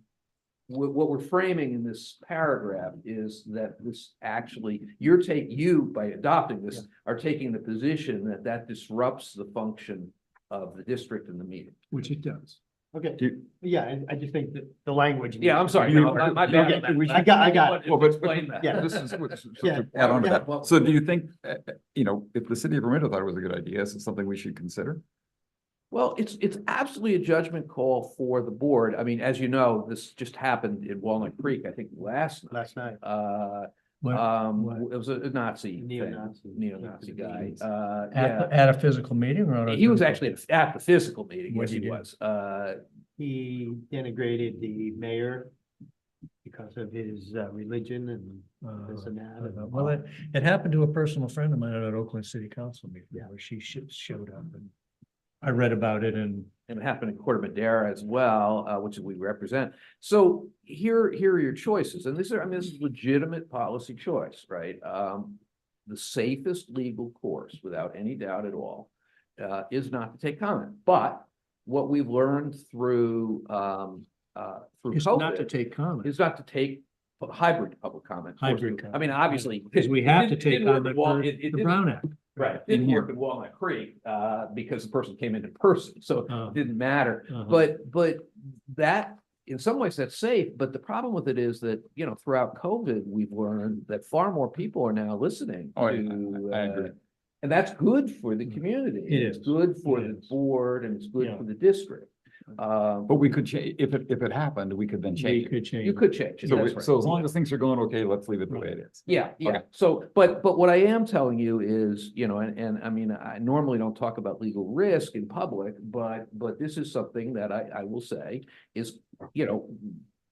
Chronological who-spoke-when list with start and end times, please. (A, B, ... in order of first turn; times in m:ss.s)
0:00.7-0:11.8 A
0:11.9-0:12.6 B
0:12.9-0:17.9 C
0:15.4-0:21.0 A
0:15.8-0:25.0 D
0:19.6-0:20.4 C
0:25.9-0:38.5 A
0:32.5-0:33.0 C
0:34.0-0:34.8 B
0:35.8-0:37.6 C
0:38.1-0:40.3 B
0:39.7-0:42.8 A
0:41.5-0:42.0 B
0:43.2-0:45.5 C
0:46.4-0:50.0 C
0:48.6-0:54.7 B
0:55.4-0:56.5 B
0:56.7-1:15.5 A
1:14.9-1:16.1 B
1:16.0-1:43.2 A
1:18.4-1:22.8 B
1:22.7-1:23.1 D
1:26.3-1:26.6 B
1:27.3-1:27.6 B
1:35.8-1:36.9 D
1:39.1-1:40.3 B
1:41.2-1:41.4 B
1:43.1-1:45.5 D
1:45.2-1:46.7 B
1:45.8-1:47.2 A
1:46.4-1:49.6 D
1:49.1-2:00.0 A